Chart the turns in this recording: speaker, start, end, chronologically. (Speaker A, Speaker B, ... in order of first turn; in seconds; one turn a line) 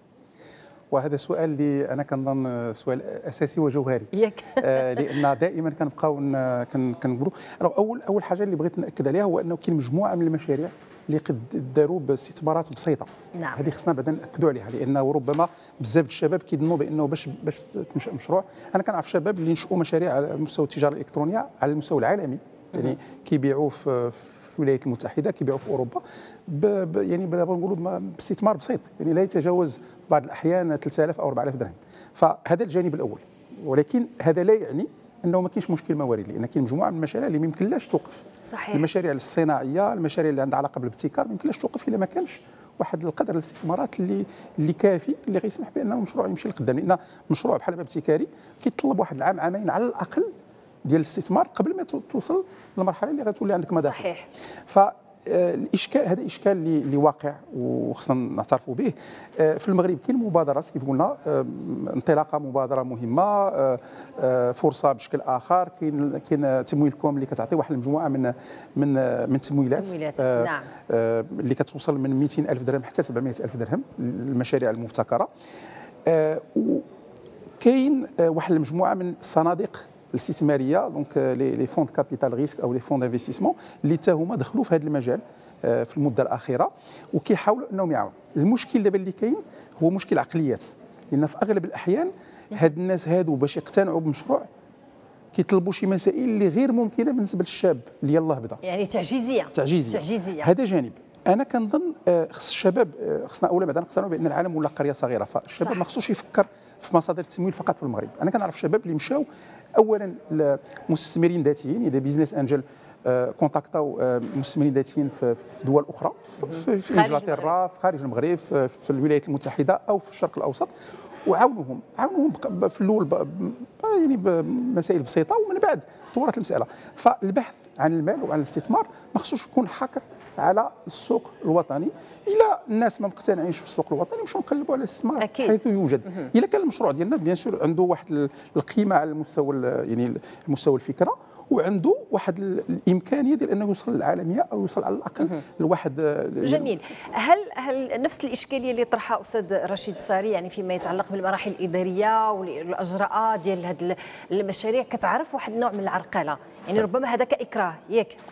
Speaker A: 0.9-50.3
Speaker B: 4.1-5.0
Speaker B: 13.3-13.6
Speaker B: 38.5-38.9
Speaker A: 50.8-54.0
Speaker B: 53.8-54.3
Speaker A: 54.7-75.3
Speaker B: 69.7-70.7
Speaker A: 76.1-76.8
Speaker A: 77.6-94.5
Speaker A: 95.3-98.6
Speaker B: 98.6-100.5
Speaker A: 99.5-120.7
Speaker B: 116.4-117.5
Speaker A: 121.2-146.7
Speaker B: 135.2-135.6
Speaker B: 146.4-158.2